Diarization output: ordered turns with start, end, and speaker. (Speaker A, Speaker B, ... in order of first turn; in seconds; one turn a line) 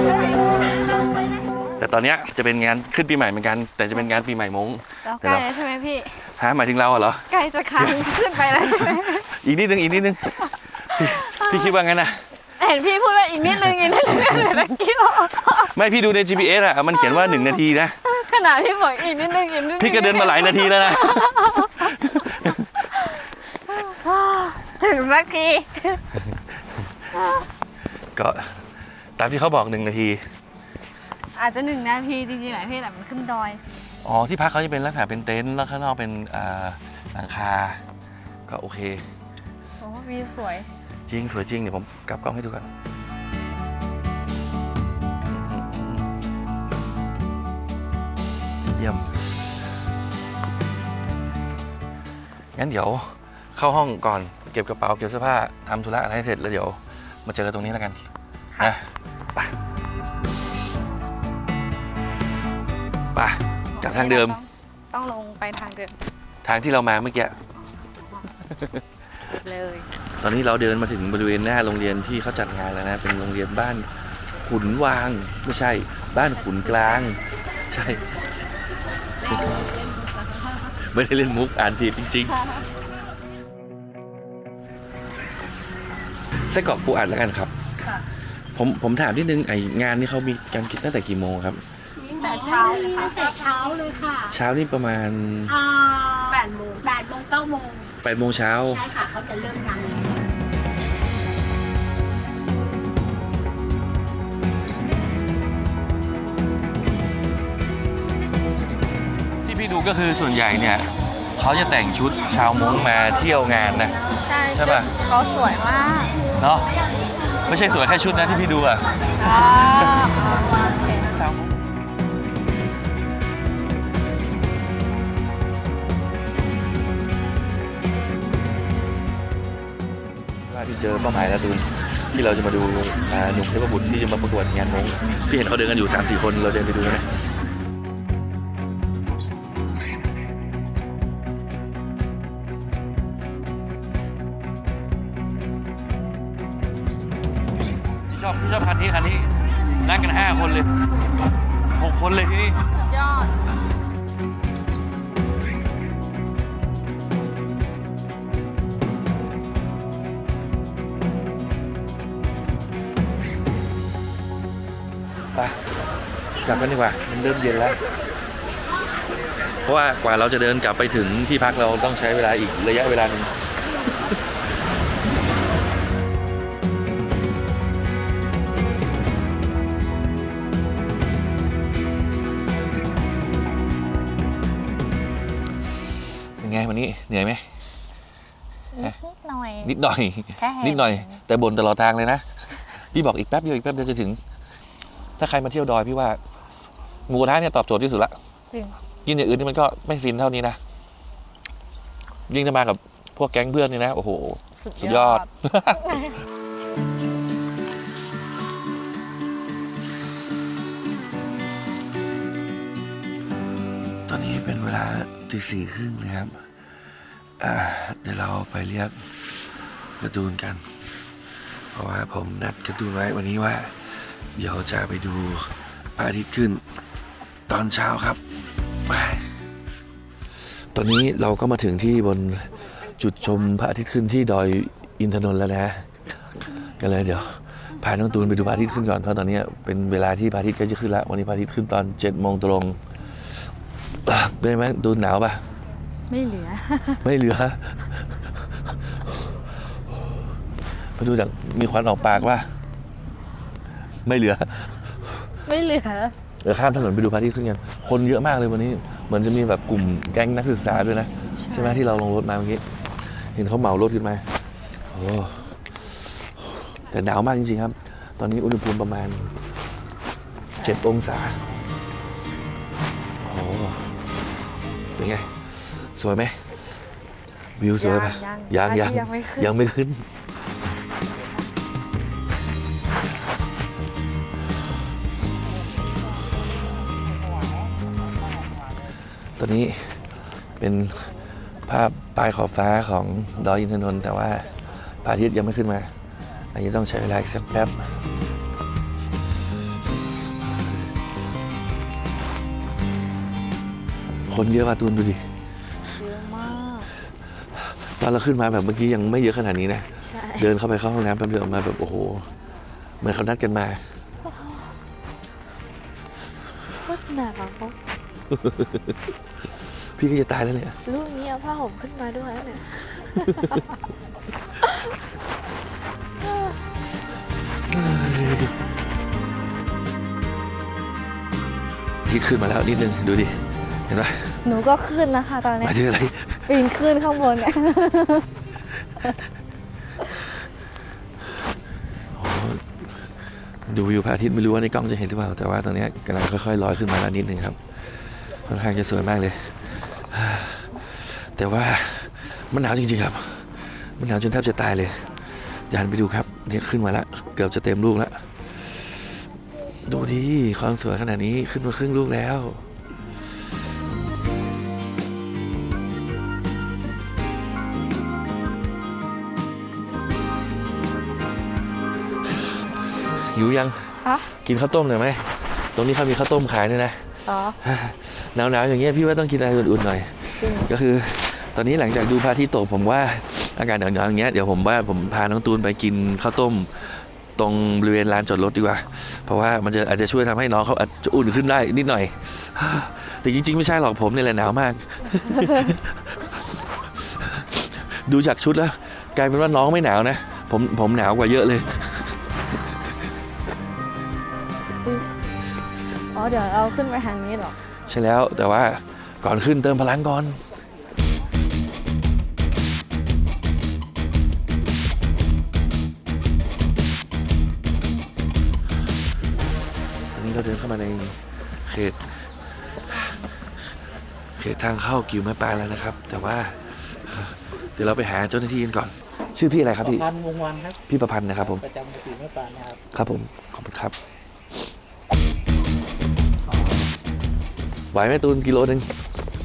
Speaker A: 1.8-5.6
Speaker B: 5.0-6.2
Speaker A: 6.2-12.3
Speaker B: 7.3-9.3
Speaker B: 11.0-11.6
Speaker B: 12.6-15.7
Speaker A: 14.1-14.4
Speaker A: 15.7-18.0
Speaker B: 17.0-26.0
Speaker A: 19.7-22.7
Speaker A: 28.1-28.6
Speaker A: 29.2-30.2
Speaker B: 31.3-33.6
Speaker A: 34.0-37.8
Speaker A: 38.5-39.0
Speaker B: 39.8-40.7
Speaker A: 41.1-42.7
Speaker A: 45.3-46.1
Speaker A: 48.7-49.0
Speaker A: 52.5-58.1
Speaker A: 58.6-59.5
Speaker A: 63.1-64.4
Speaker B: 63.8-66.0
Speaker A: 66.4-67.4
Speaker A: 68.5-68.8
Speaker B: 69.3-69.9
Speaker A: 70.2-78.0
Speaker B: 76.4-77.0
Speaker B: 79.2-80.7
Speaker A: 79.2-79.7
Speaker A: 80.8-82.4
Speaker B: 82.3-82.6
Speaker A: 86.5-87.5
Speaker A: 88.5-91.6
Speaker C: 92.0-94.3
Speaker B: 92.2-93.4
Speaker A: 94.2-95.6
Speaker C: 95.5-97.9
Speaker A: 98.0-98.9
Speaker C: 98.7-100.1
Speaker A: 109.4-114.0
Speaker B: 114.2-116.2
Speaker A: 114.5-114.9
Speaker A: 116.4-116.7
Speaker A: 117.5-119.0
Speaker B: 119.2-121.1
Speaker A: 119.6-120.0
Speaker A: 121.0-121.5
Speaker A: 130.5-137.1
Speaker A: 148.1-150.7
Speaker A: 151.7-152.7
Speaker B: 152.7-153.3
Speaker A: 166.4-167.8
Speaker A: 169.6-173.3
Speaker A: 186.4-187.5
Speaker B: 188.7-189.7
Speaker A: 189.6-194.2
Speaker B: 190.4-191.2
Speaker A: 195.2-196.2
Speaker A: 197.1-198.1
Speaker B: 198.5-198.8
Speaker A: 199.0-200.6
Speaker A: 202.3-205.8
Speaker B: 204.6-206.1
Speaker A: 214.1-216.4
Speaker A: 217.4-219.1
Speaker A: 220.0-220.6
Speaker A: 221.7-226.6
Speaker A: 227.5-228.2
Speaker A: 228.9-229.3
Speaker A: 230.6-235.9
Speaker A: 236.6-242.8
Speaker A: 244.0-245.4
Speaker B: 246.1-247.0
Speaker A: 247.0-249.8
Speaker A: 250.9-252.5
Speaker A: 254.0-254.9
Speaker B: 255.4-256.1
Speaker A: 256.4-264.2
Speaker B: 261.3-261.8
Speaker A: 264.9-265.6
Speaker A: 266.6-269.3
Speaker B: 270.6-270.8
Speaker A: 270.6-271.4
Speaker A: 273.2-274.0
Speaker A: 274.9-276.6
Speaker A: 277.6-280.1
Speaker B: 277.8-279.5
Speaker A: 289.4-295.9
Speaker A: 296.5-297.9
Speaker A: 300.4-300.9
Speaker A: 304.3-305.3
Speaker B: 305.8-306.9
Speaker A: 307.6-312.3
Speaker B: 310.0-310.5
Speaker A: 313.0-313.8
Speaker B: 314.2-314.7
Speaker B: 316.8-317.7
Speaker A: 318.3-318.9
Speaker A: 319.6-320.8
Speaker B: 320.9-323.6
Speaker A: 327.7-328.5
Speaker A: 332.0-334.4
Speaker B: 334.4-335.8
Speaker A: 335.6-336.6
Speaker B: 336.5-338.3
Speaker A: 342.1-342.6
Speaker A: 343.6-347.6
Speaker A: 348.4-359.0
Speaker A: 359.8-362.7
Speaker A: 373.1-377.1
Speaker B: 374.0-374.3
Speaker B: 377.2-377.6
Speaker A: 377.6-396.4
Speaker B: 380.4-380.7
Speaker A: 397.0-402.1
Speaker B: 406.1-407.6
Speaker A: 407.9-410.4
Speaker A: 420.1-422.1
Speaker A: 424.4-430.1
Speaker D: 429.8-430.8
Speaker A: 430.9-431.6
Speaker D: 431.4-432.8
Speaker A: 432.9-433.9
Speaker A: 436.5-436.9
Speaker A: 437.9-438.9